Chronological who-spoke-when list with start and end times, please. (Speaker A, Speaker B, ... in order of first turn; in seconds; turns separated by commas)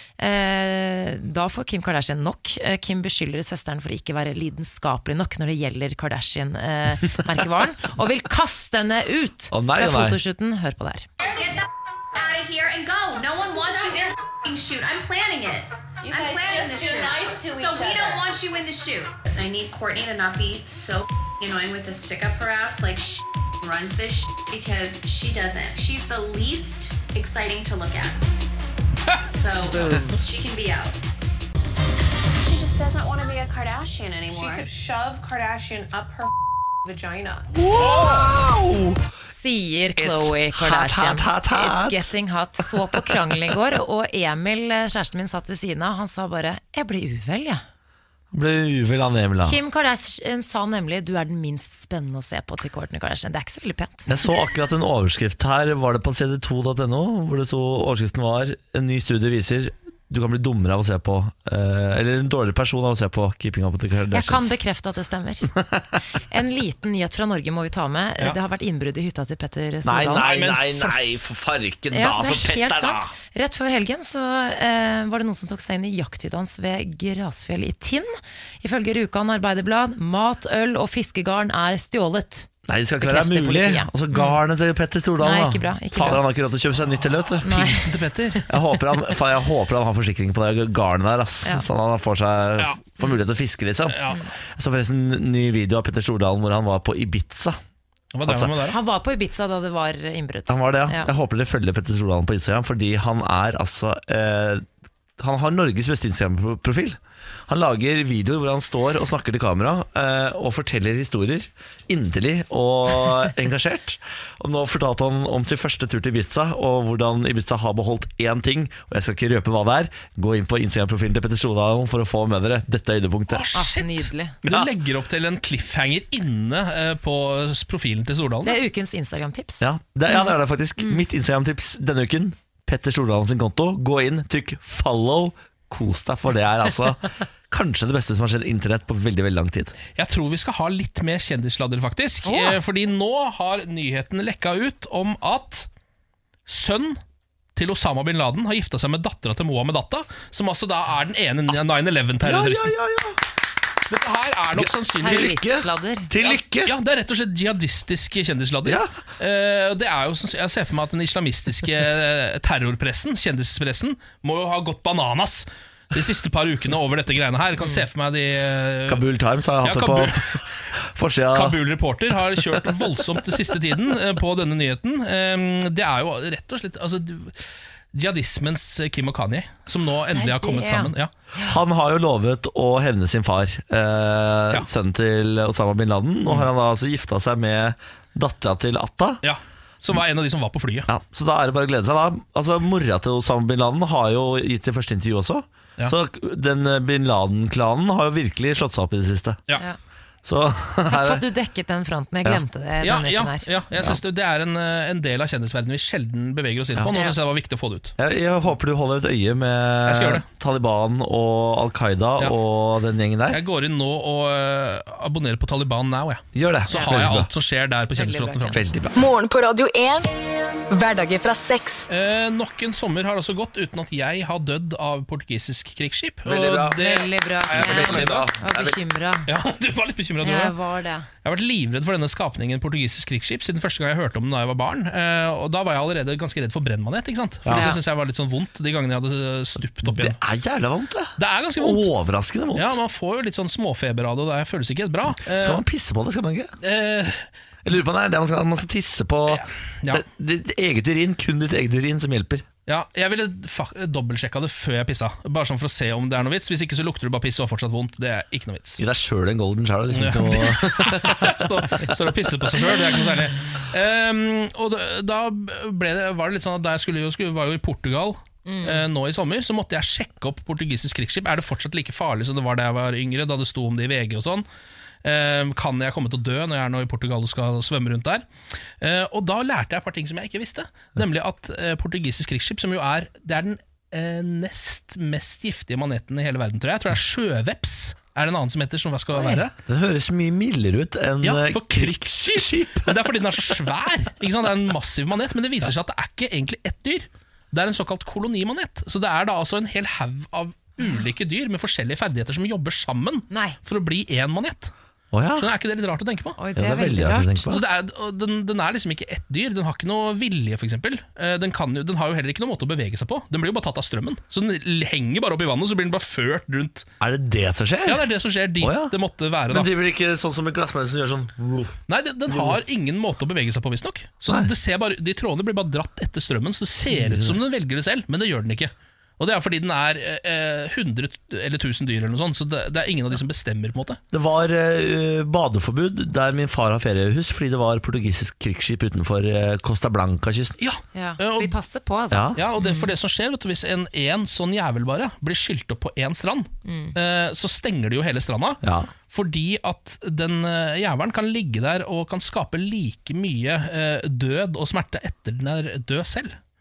Speaker A: 0.2-11.1, Speaker B: 9.5-10.2, Speaker C: 11.2-28.2, Speaker D: 11.2-11.6, Speaker D: 13.4-14.1, Speaker D: 16.0-18.2, Speaker C: 29.3-31.0, Speaker A: 29.7-30.1, Speaker C: 32.4-34.8, Speaker D: 34.3-36.3, Speaker D: 36.9-37.3, Speaker B: 37.6-39.0, Speaker E: 37.8-38.2, Speaker A: 39.2-47.6, Speaker B: 40.0-42.1, Speaker B: 48.3-49.6, Speaker A: 49.4-54.1, Speaker B: 54.1-64.6, Speaker A: 64.1-65.5, Speaker B: 65.5-65.9, Speaker A: 66.2-70.5, Speaker B: 69.8-73.1, Speaker E: 70.2-71.0, Speaker A: 71.9-82.5, Speaker B: 82.7-87.6, Speaker A: 83.0-84.4, Speaker A: 85.2-86.2, Speaker A: 87.4-88.4, Speaker E: 87.4-88.4, Speaker B: 88.5-94.0, Speaker E: 93.9-94.2, Speaker B: 94.5-97.6, Speaker E: 98.1-98.8, Speaker B: 98.2-98.5, Speaker A: 98.7-101.1, Speaker B: 100.5-104.7, Speaker B: 105.2-123.5, Speaker E: 123.3-128.6, Speaker A: 123.5-124.3, Speaker A: 128.4-131.0, Speaker B: 129.6-139.8, Speaker E: 139.9-145.7, Speaker A: 142.2-142.6, Speaker E: 146.5-147.0, Speaker E: 147.6-152.7, Speaker B: 152.2-153.2, Speaker E: 153.9-155.3, Speaker B: 154.5-156.7, Speaker A: 155.0-156.1, Speaker E: 156.2-169.1, Speaker B: 158.6-158.9, Speaker B: 168.9-171.6, Speaker E: 169.6-170.5, Speaker E: 171.3-177.4, Speaker E: 177.9-181.1, Speaker A: 180.1-181.6, Speaker B: 181.4-189.2, Speaker E: 189.2-190.9, Speaker B: 190.9-199.4, Speaker B: 200.2-201.2, Speaker A: 200.8-203.5, Speaker E: 202.8-207.9, Speaker A: 206.9-207.2, Speaker B: 208.0-213.4, Speaker E: 209.9-210.2, Speaker E: 213.3-218.6, Speaker B: 216.3-217.3, Speaker A: 216.7-217.1, Speaker A: 217.9-218.6, Speaker B: 218.5-218.9, Speaker F: 218.9-220.1, Speaker F: 220.7-221.9, Speaker E: 221.9-228.3, Speaker B: 226.2-226.8, Speaker A: 226.6-229.3, Speaker B: 227.5-228.8, Speaker E: 229.3-230.5, Speaker A: 230.2-231.1, Speaker E: 231.2-240.2, Speaker B: 237.4-237.7, Speaker A: 237.5-237.8, Speaker B: 239.8-242.8, Speaker E: 241.2-241.9, Speaker E: 242.5-245.6, Speaker B: 245.2-246.5, Speaker E: 246.6-247.3, Speaker B: 247.6-252.4, Speaker E: 249.3-250.0, Speaker E: 252.7-258.8, Speaker B: 258.8-261.8, Speaker E: 259.9-274.4, Speaker A: 268.4-268.9, Speaker E: 275.0-278.2, Speaker E: 278.8-289.5, Speaker A: 289.1-289.4, Speaker B: 289.6-292.9, Speaker E: 291.2-292.0, Speaker E: 292.8-304.7, Speaker A: 300.8-301.1, Speaker A: 303.3-303.6, Speaker B: 305.1-305.5, Speaker E: 305.4-306.4, Speaker A: 306.4-307.5, Speaker B: 306.5-307.6, Speaker E: 307.5-316.9, Speaker B: 317.0-318.0, Speaker E: 317.9-319.7, Speaker B: 318.6-318.9, Speaker B: 319.5-321.8, Speaker E: 321.9-334.0, Speaker B: 322.3-322.6, Speaker B: 326.9-327.4, Speaker B: 334.1-340.6, Speaker E: 340.6-341.5, Speaker A: 340.9-342.9, Speaker B: 342.1-342.4, Speaker E: 342.4-356.3, Speaker A: 346.6-346.9, Speaker B: 348.6-348.9